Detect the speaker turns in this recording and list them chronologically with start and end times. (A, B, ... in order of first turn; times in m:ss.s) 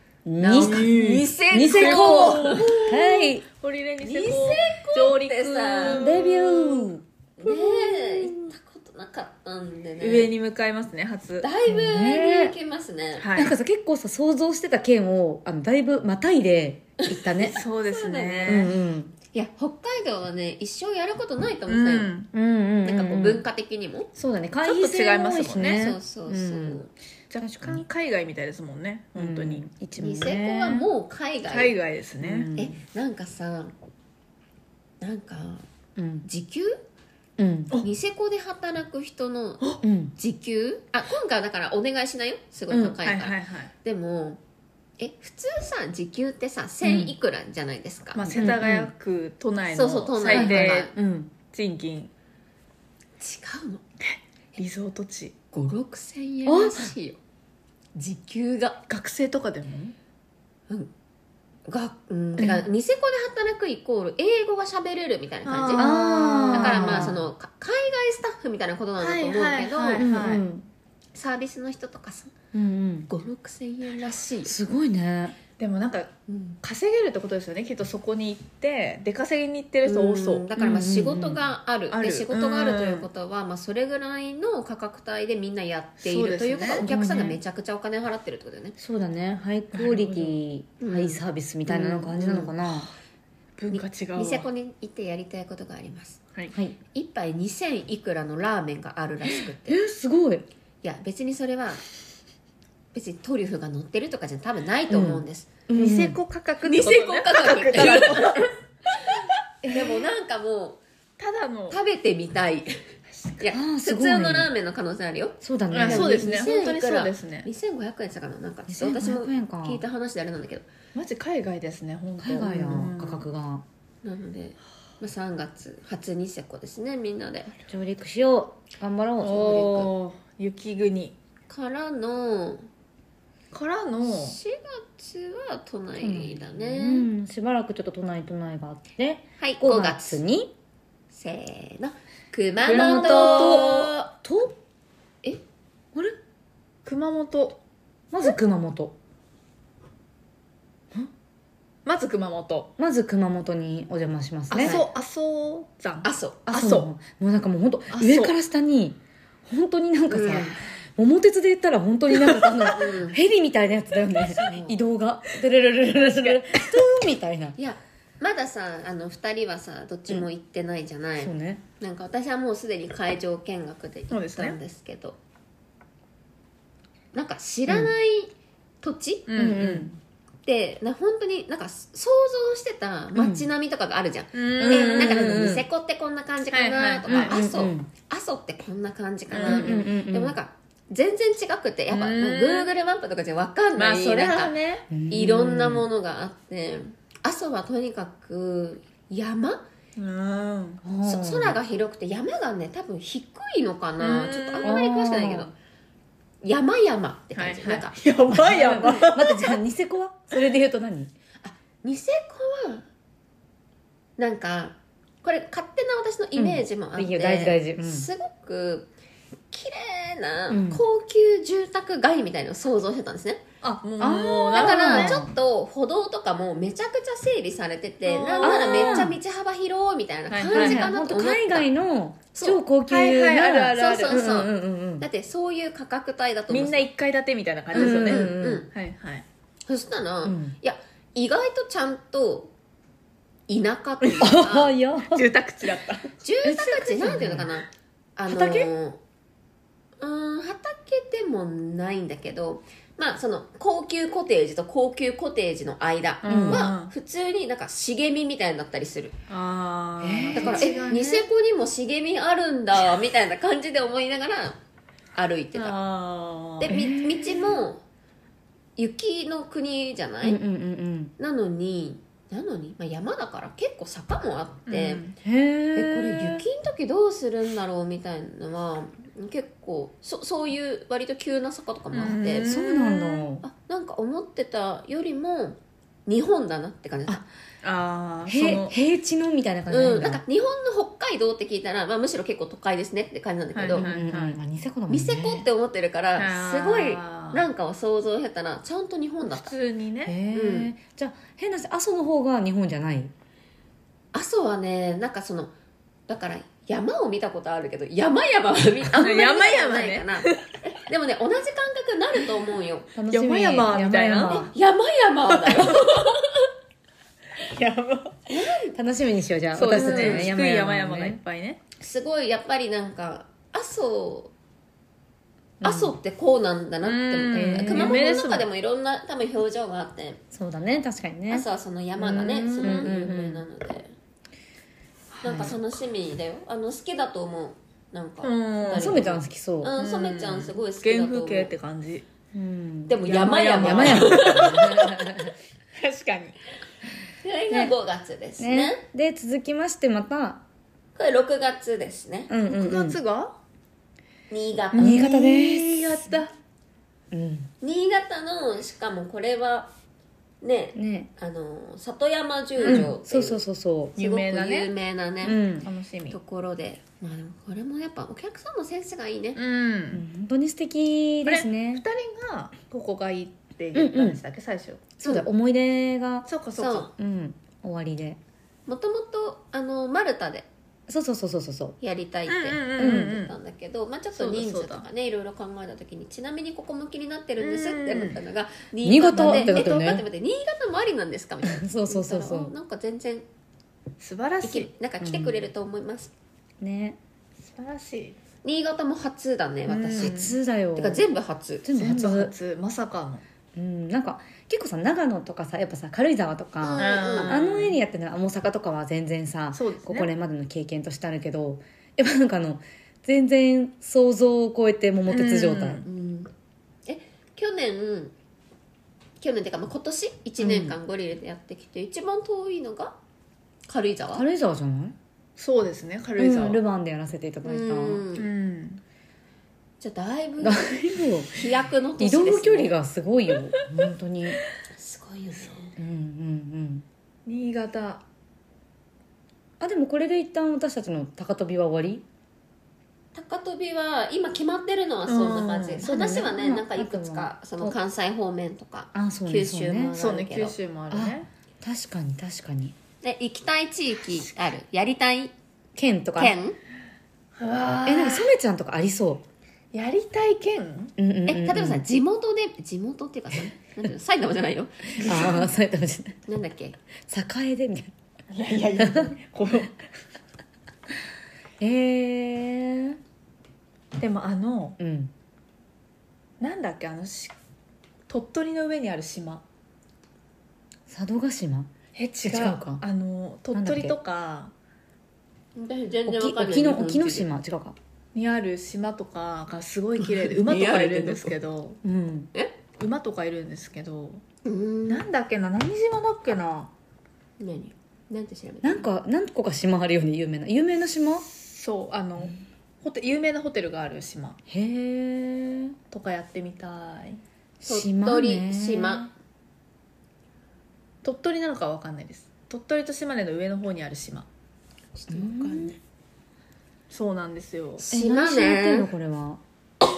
0:00.3-0:00.9 A
0:00.4-0:03.0 B
0:00.6-0:06.9 C
0:01.5-0:03.5 A
0:04.0-0:06.1 B
0:05.9-0:08.4 A
0:07.4-0:10.3 B
0:10.0-0:11.5 C
0:11.4-0:13.3 B
0:11.7-0:12.5 A
0:13.2-0:13.6 C
0:13.4-0:17.6 A
0:17.0-0:18.7 B
0:17.5-0:18.7 C
0:18.5-0:19.2 A
0:19.3-0:22.1 B
0:21.7-0:22.3 C
0:22.3-0:23.4 A
0:22.8-0:24.1 B
0:24.2-0:26.8 A
0:24.6-0:25.8 C
0:25.7-0:26.9 B
0:27.3-0:30.9 C
0:27.4-0:27.8 A
0:29.2-0:30.3 A
0:30.0-0:31.8 B
0:31.5-0:32.5 C
0:32.2-0:32.8 A
0:32.6-0:33.7 B
0:35.0-0:35.7 B
0:36.0-0:36.3 A
0:36.2-0:36.8 B
0:37.4-0:37.8 A
0:37.8-0:44.4 B
0:39.8-0:40.2 A
0:42.7-0:43.7 C
0:45.0-0:48.5 B
0:46.8-0:47.1 A
0:48.2-0:52.1 C
0:48.4-0:48.9 A
0:49.7-0:50.9 B
0:50.3-0:50.8 A
0:53.2-0:53.8 B
0:54.0-0:55.3 C
0:55.5-0:57.2 B
0:56.5-0:56.9 A
0:58.0-0:58.8 B
0:58.9-1:00.0 C
1:01.7-1:06.0 B
1:02.4-1:02.6 C
1:05.4-1:07.2 C
1:05.8-1:07.2 A
1:06.5-1:10.1 B
1:09.0-1:10.4 C
1:10.0-1:10.7 A
1:11.1-1:12.3 B
1:12.5-1:13.1 A
1:13.1-1:14.5 B
1:14.4-1:15.4 A
1:15.6-1:20.6 C
1:16.3-1:16.6 B
1:19.8-1:28.8 B
1:20.6-1:21.4 A
1:21.9-1:23.1 C
1:26.0-1:26.8 C
1:26.7-1:27.4 A
1:28.8-1:32.9 A
1:29.7-1:30.4 C
1:30.8-1:32.5 B
1:33.6-1:34.5 C
1:33.7-1:36.2 B
1:36.5-1:36.8 A
1:36.9-1:39.8 B
1:39.7-1:40.5 A
1:40.8-1:41.8 B
1:42.9-1:45.5 B
1:44.9-1:46.2 A
1:45.7-1:48.5 C
1:46.6-1:49.1 B
1:49.6-1:50.8 B
1:51.2-1:51.8 C
1:51.7-2:00.7 B
1:53.1-1:53.4 C
1:53.5-1:54.5 A
1:55.4-1:56.2 A
1:55.7-1:57.5 C
1:58.7-1:59.8 A
2:01.0-2:03.3 C
2:02.2-2:03.6 A
2:04.0-2:07.5 B
2:07.7-2:09.9 A
2:09.2-2:11.2 C
2:11.5-2:12.7 B
2:13.5-2:14.4 C
2:14.0-2:17.1 B
2:16.0-2:20.5 A
2:19.4-2:20.2 B
2:21.1-2:24.1 B
2:22.6-2:23.8 C
2:22.7-2:24.6 A
2:26.8-2:27.6 C
2:28.1-2:29.0 A
2:31.8-2:32.7 C
2:32.8-2:34.8 A
2:34.5-2:36.9 C
2:34.6-2:34.9 B
2:36.0-2:36.4 B
2:36.5-2:47.6 A
2:37.9-2:38.4 C
2:40.1-2:40.6 B
2:42.7-2:43.2 B
2:44.4-2:44.8 B
2:46.0-2:46.8 C
2:47.6-2:55.2 B
2:51.2-2:51.6 A
2:54.1-2:54.6 C
2:57.1-2:59.3 B
2:57.7-2:57.9 A
2:59.3-2:59.9 C
2:59.4-3:00.0 A
3:00.5-3:14.6 B
3:03.2-3:03.5 A
3:04.3-3:05.4 C
3:04.6-3:05.6 A
3:06.5-3:07.4 C
3:07.1-3:07.9 A
3:09.3-3:09.8 C
3:09.4-3:10.4 A
3:11.9-3:12.7 C
3:13.8-3:14.9 C
3:14.9-3:15.9 A
3:15.1-3:19.6 B
3:20.0-3:20.8 C
3:20.8-3:21.6 A
3:21.0-3:25.5 B
3:24.0-3:24.8 C
3:24.6-3:25.5 A
3:26.4-3:28.0 B
3:27.4-3:29.6 C
3:28.3-3:31.1 A
3:31.4-3:32.9 B
3:34.2-3:38.9 B
3:36.4-3:38.1 A
3:39.5-3:43.4 B
3:40.5-3:40.8 A
3:43.6-3:45.2 C
3:44.0-3:45.3 A
3:44.5-3:51.7 B
3:48.1-3:49.1 C
3:48.4-3:49.2 A
3:50.3-3:50.9 C
3:50.5-3:55.1 A
3:52.3-3:52.6 B
3:52.9-3:54.2 C
3:53.8-3:56.9 B
3:56.5-3:59.2 C
3:57.7-3:58.6 A
3:57.8-3:58.7 B
3:59.7-4:02.5 B
4:00.2-4:00.6 A
4:03.5-4:04.7 B
4:04.2-4:05.3 A
4:05.0-4:06.1 C
4:06.2-4:09.0 B
4:06.4-4:07.5 A
4:08.3-4:08.7 A
4:10.0-4:19.2 B
4:16.2-4:16.9 C
4:16.3-4:16.7 A
4:19.3-4:21.3 C
4:20.0-4:20.8 A
4:20.3-4:24.6 B
4:25.1-4:25.8 B
4:25.5-4:26.8 C
4:26.6-4:27.8 B
4:26.7-4:27.3 A
4:28.8-4:30.4 B
4:30.2-4:31.1 A
4:31.2-4:35.0 B
4:34.7-4:35.2 C
4:35.2-4:36.4 A
4:35.8-4:42.5 B
4:41.9-4:43.3 C
4:42.4-4:43.4 A
4:43.4-4:47.2 B
4:47.6-4:48.8 C
4:48.3-4:50.2 A
4:49.7-4:53.9 B
4:53.6-4:54.4 C
4:53.7-4:55.5 A
4:54.9-4:59.5 B
4:56.2-4:57.4 C
4:59.2-5:00.2 C
5:00.1-5:03.1 A
5:00.3-5:00.7 B
5:04.1-5:05.5 B
5:06.1-5:12.9 B
5:08.9-5:10.5 C
5:13.0-5:14.5 A
5:13.1-5:14.4 C
5:14.3-5:16.5 B
5:15.3-5:16.0 C
5:17.4-5:18.2 C
5:18.3-5:18.8 B
5:18.7-5:21.2 A
5:19.6-5:21.6 C
5:19.7-5:20.3 B
5:21.8-5:24.3 B
5:25.6-5:30.2 B
5:25.6-5:26.0 A
5:26.8-5:28.5 C
5:27.3-5:28.0 A
5:30.3-5:31.5 A
5:31.3-5:33.9 B
5:32.0-5:32.9 C
5:32.6-5:33.4 A
5:35.2-5:35.5 C
5:35.2-5:41.5 B
5:35.2-5:35.6 A
5:38.2-5:39.1 C
5:38.7-5:39.8 A
5:39.8-5:42.0 C
5:42.3-5:45.3 A
5:42.9-5:44.7 B
5:43.0-5:46.4 C
5:47.2-5:48.8 B
5:48.4-5:50.4 A
5:51.0-5:52.3 B
5:52.3-5:53.0 A
5:52.5-5:53.4 C
5:54.3-5:55.0 B
5:54.7-5:56.3 C
5:54.8-5:56.1 A
5:57.1-5:57.5 A
5:57.6-5:59.7 B
6:00.4-6:03.4 B
6:00.8-6:01.1 A
6:02.6-6:02.9 C
6:02.6-6:03.9 A
6:04.0-6:05.4 B
6:04.0-6:04.7 C
6:05.2-6:05.7 A
6:05.6-6:06.2 C
6:06.1-6:09.4 B
6:09.4-6:10.0 C
6:09.9-6:11.8 A
6:11.2-6:14.9 C
6:13.7-6:14.2 A
6:15.0-6:16.3 A
6:16.3-6:16.9 C
6:16.6-6:16.9 B
6:17.0-6:18.2 A
6:18.7-6:20.5 B
6:20.9-6:21.8 A
6:21.8-6:33.2 B
6:22.3-6:23.3 C
6:22.8-6:23.2 A
6:24.1-6:24.9 C
6:27.4-6:28.2 C
6:28.8-6:30.1 A
6:29.2-6:29.7 C
6:31.4-6:32.5 A
6:34.0-6:34.7 C
6:34.4-6:36.1 B
6:35.0-6:35.4 A
6:36.6-6:37.0 A
6:37.4-6:38.2 C
6:38.4-6:40.2 B
6:39.7-6:40.4 C
6:40.0-6:41.0 A
6:40.8-6:41.6 B
6:41.6-6:42.3 A
6:41.7-6:43.2 C
6:43.6-6:55.8 A
6:46.6-6:47.4 B
6:46.8-6:47.8 C
6:49.5-6:50.1 C
6:55.1-6:55.9 C
6:55.8-6:56.3 B
6:56.9-6:58.1 B
6:59.2-7:03.0 B
7:00.4-7:00.8 A
7:03.7-7:04.2 B
7:04.1-7:05.0 A
7:05.4-7:06.6 C
7:06.2-7:08.0 A
7:07.4-7:08.3 B
7:08.2-7:08.8 C
7:09.8-7:10.7 B
7:10.4-7:14.4 A
7:11.3-7:12.8 B
7:14.7-7:15.7 B
7:15.8-7:16.9 A
7:17.3-7:18.0 C
7:19.6-7:22.0 A
7:23.1-7:30.6 B
7:25.1-7:25.8 C
7:25.8-7:27.8 A
7:28.9-7:30.0 A
7:30.0-7:31.3 C
7:30.9-7:32.8 A
7:33.0-7:35.3 B
7:35.8-7:36.4 A
7:36.2-7:36.6 B
7:37.4-7:38.3 C
7:37.9-7:39.2 A
7:39.7-7:40.9 C
7:41.0-7:41.8 A
7:41.3-7:45.2 B
7:45.0-7:46.2 A
7:45.0-7:45.5 C
7:46.3-7:46.8 B
7:47.1-7:47.9 A
7:48.3-7:49.8 C
7:48.8-7:49.1 A
7:51.6-7:53.0 A
7:54.0-7:54.8 C
7:54.8-7:55.1 A
7:56.4-7:57.3 C
7:58.1-7:59.4 C
8:00.9-8:01.7 A
8:02.0-8:04.5 C
8:02.2-8:02.8 A
8:03.5-8:04.0 A
8:05.6-8:07.3 B
8:06.1-8:07.8 A
8:08.1-8:11.8 C
8:10.0-8:11.3 B
8:11.8-8:12.3 A
8:12.8-8:14.2 C
8:14.4-8:15.0 B
8:14.9-8:16.7 C
8:17.4-8:18.9 B
8:18.6-8:21.3 A
8:21.3-8:24.4 C
8:24.5-8:25.8 A
8:25.9-8:27.2 C
8:27.6-8:29.1 A
8:27.6-8:29.1 B
8:31.0-8:34.3 C
8:35.0-8:35.8 B
8:35.1-8:35.8 A
8:36.9-8:37.8 C
8:37.8-8:38.9 B
8:37.9-8:39.4 A